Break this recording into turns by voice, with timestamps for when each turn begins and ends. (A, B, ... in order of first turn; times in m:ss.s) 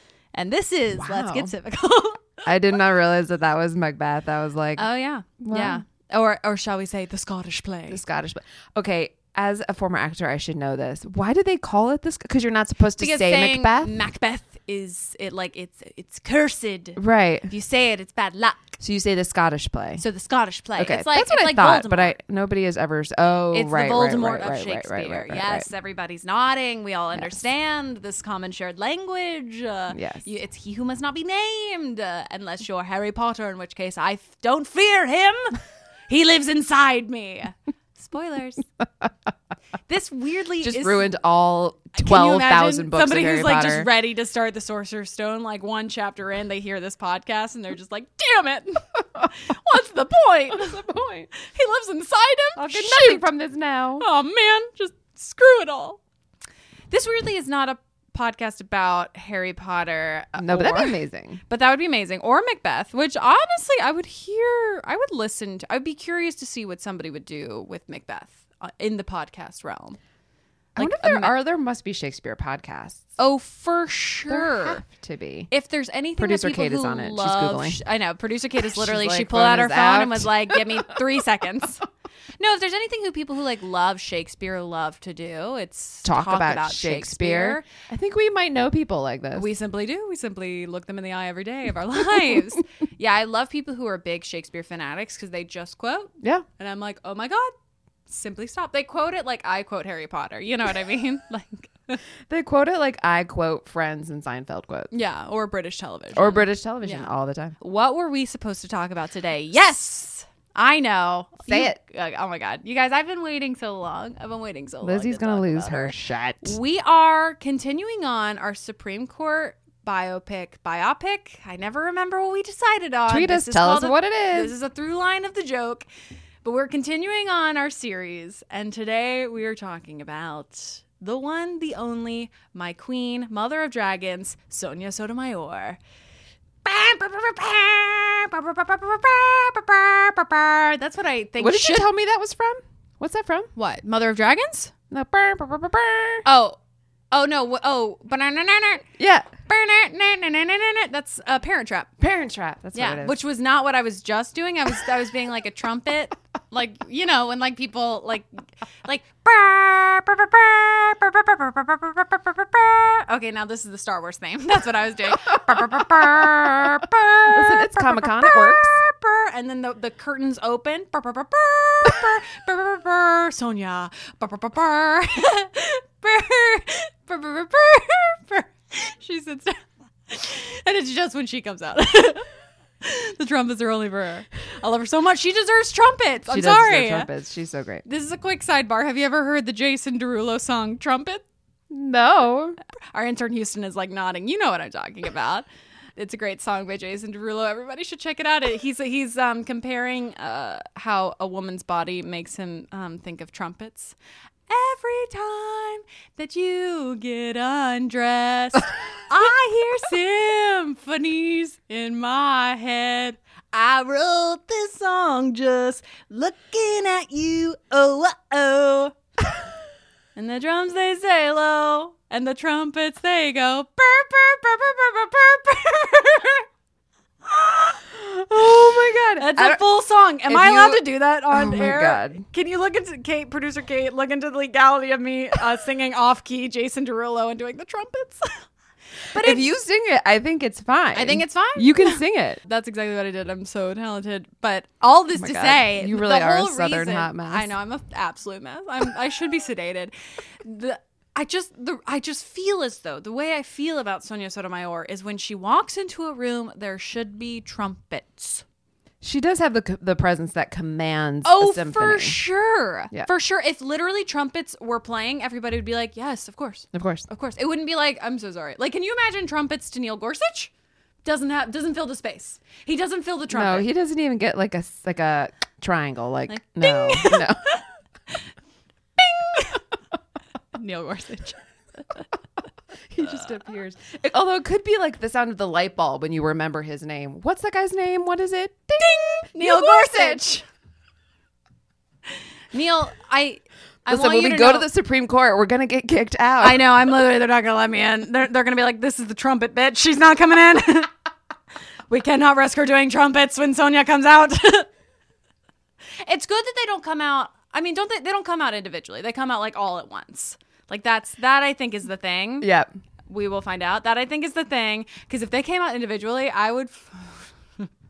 0:00.3-0:02.4 A
0:01.0-0:01.5 B
0:02.4-0:04.9 B
0:04.8-0:08.0 A
0:05.4-0:05.8 B
0:07.9-0:13.9 B
0:13.0-0:18.8 A
0:17.0-0:17.5 B
0:18.8-0:20.0 B
0:20.0-0:22.2 A
0:20.8-0:25.7 B
0:23.5-0:35.6 A
0:29.9-0:30.2 B
0:36.1-0:38.6 A
0:39.9-0:41.1 A
0:40.6-0:43.9 B
0:42.0-0:53.3 A
0:50.5-0:51.3 B
0:52.6-0:54.1 B
0:54.0-0:56.0 A
0:56.9-1:10.0 A
1:00.4-1:01.4 B
1:10.8-1:13.1 B
1:10.8-1:11.3 A
1:13.2-1:14.8 A
1:14.3-1:15.5 B
1:15.5-1:21.8 A
1:16.2-1:17.8 B
1:18.7-1:20.8 B
1:22.4-1:27.7 A
1:26.0-1:29.5 B
1:29.4-1:37.5 A
1:36.2-1:36.5 B
1:38.1-1:42.0 A
1:42.3-1:44.9 B
1:44.9-2:05.9 A
1:46.2-1:47.6 B
1:51.5-1:51.8 B
1:54.8-1:56.6 B
2:03.1-2:04.5 B
2:06.4-2:15.8 A
2:16.6-2:21.9 A
2:21.4-2:23.5 B
2:23.6-2:24.7 A
2:24.9-2:26.2 B
2:26.2-2:26.6 A
2:27.1-2:28.9 A
2:29.0-2:29.3 B
2:29.5-2:31.9 A
2:32.0-2:33.2 B
2:32.8-3:02.2 A
2:46.6-2:48.8 B
3:02.8-3:07.1 A
3:06.3-3:07.8 B
3:07.8-3:11.2 A
3:11.7-3:12.6 B
3:12.9-3:24.0 A
3:24.5-3:39.0 A
3:40.2-3:46.5 A
3:47.3-3:47.8 A
3:47.9-3:49.6 B
3:49.2-3:58.5 A
3:50.3-3:52.2 B
3:59.1-3:59.4 A
3:59.1-4:02.4 B
4:01.0-4:18.4 A
4:05.2-4:07.5 B
4:19.0-4:22.2 B
4:21.2-4:30.5 A
4:26.7-4:27.0 B
4:31.0-4:33.7 A
4:33.3-4:37.4 B
4:36.3-4:38.2 A
4:39.0-4:39.6 A
4:40.5-4:42.0 A
4:42.9-4:50.2 B
4:48.8-4:50.5 A
4:52.5-4:54.7 A
4:53.9-4:56.6 B
4:56.4-5:00.9 A
5:01.9-5:04.7 A
5:06.0-5:12.5 A
5:12.4-5:12.7 B
5:13.1-5:17.7 A